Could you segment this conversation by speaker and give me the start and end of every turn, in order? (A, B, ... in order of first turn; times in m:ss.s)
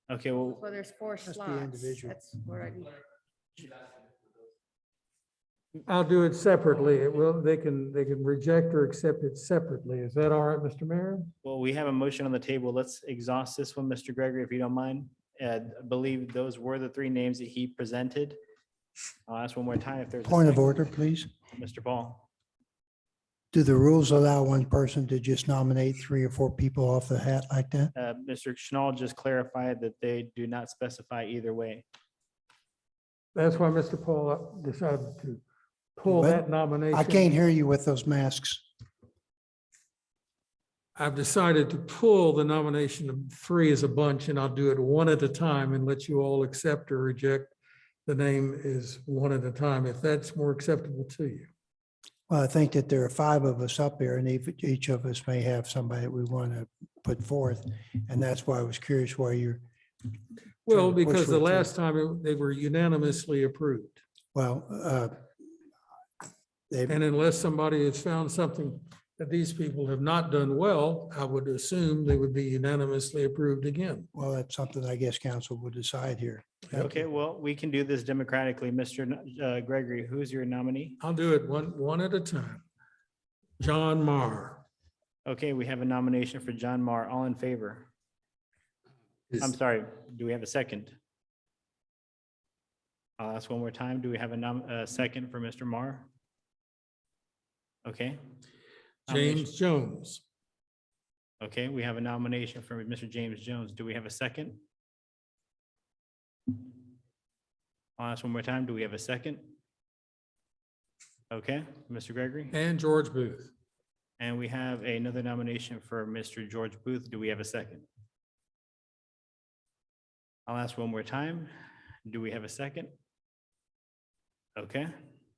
0:00.1-0:00.6 A
0:00.4-0:02.9 B
0:01.2-0:02.2 C
0:05.8-0:11.3 D
0:11.4-0:18.4 A
0:19.3-0:21.0 A
0:20.2-0:21.3 C
0:21.5-0:22.3 A
0:23.5-0:27.9 C
0:27.9-0:31.8 A
0:33.3-0:35.4 D
0:36.0-0:37.3 D
0:36.0-0:38.6 C
0:41.0-0:47.5 D
0:48.0-0:51.5 D
0:52.3-0:59.6 C
1:00.6-1:04.0 D
1:00.7-1:01.7 C
1:04.3-1:05.2 C
1:06.7-1:07.0 C
1:06.9-1:14.1 D
1:14.1-1:16.9 C
1:16.7-1:21.0 A
1:21.0-1:22.6 D
1:23.6-1:24.6 D
1:25.2-1:27.9 A
1:29.4-1:31.0 A
1:33.2-1:36.1 A
1:37.8-1:38.2 A
1:39.1-1:39.5 A
1:39.1-1:40.2 D
1:41.4-1:44.6 A
1:48.0-1:49.6 A
1:51.3-1:52.5 A
1:52.5-1:53.5 D
1:54.2-1:57.8 A
2:00.5-2:01.5 A
2:02.0-2:02.9 A
2:04.6-2:04.9 A